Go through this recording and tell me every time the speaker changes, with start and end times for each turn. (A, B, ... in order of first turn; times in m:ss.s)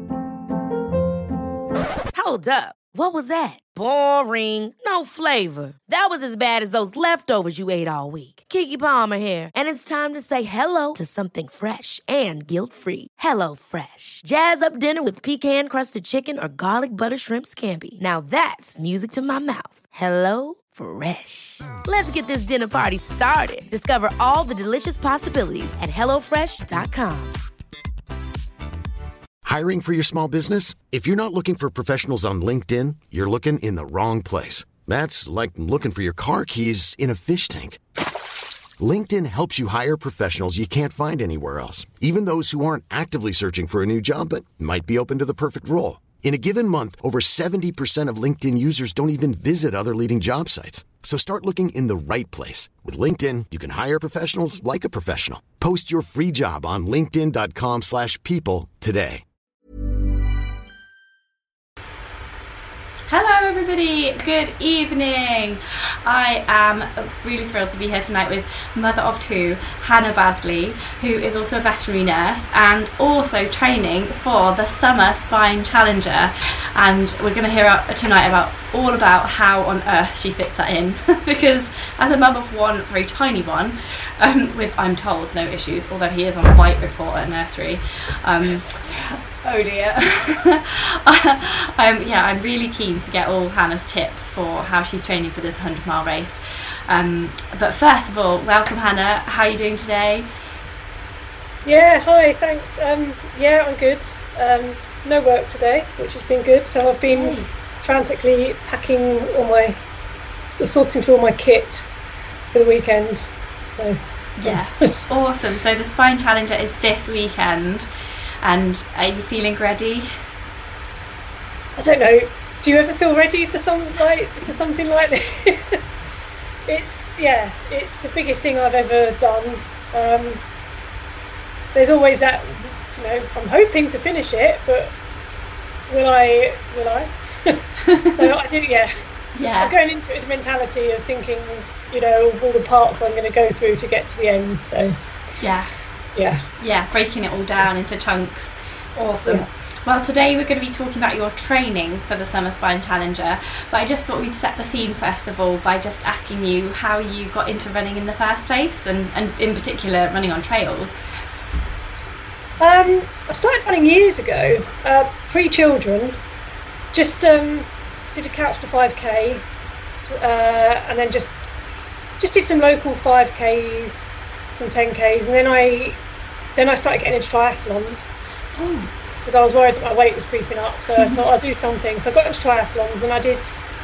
0:02.1-0:27.4 A
0:29.4-0:37.8 B
0:38.8-0:59.2 B
1:03.1-1:40.3 C
1:41.6-1:49.8 D
1:47.1-1:47.5 C
1:50.6-1:51.9 D
1:52.5-1:55.1 D
1:54.4-1:57.9 C
1:58.4-2:00.1 C
2:01.8-2:05.8 D
2:06.7-2:10.4 D
2:11.7-2:14.9 D
2:15.9-2:18.9 D
2:17.8-2:18.2 C
2:19.4-2:19.7 C
2:19.6-2:25.0 D
2:25.4-2:25.7 C
2:26.2-2:26.4 D
2:26.6-2:41.0 C
2:27.4-2:27.7 D
2:42.6-2:46.2 D
2:46.9-2:49.4 D
2:50.0-2:51.4 D
2:52.2-2:56.0 D
2:56.6-2:58.1 D
2:58.5-2:58.9 C
2:59.2-3:03.6 D
3:00.9-3:01.2 C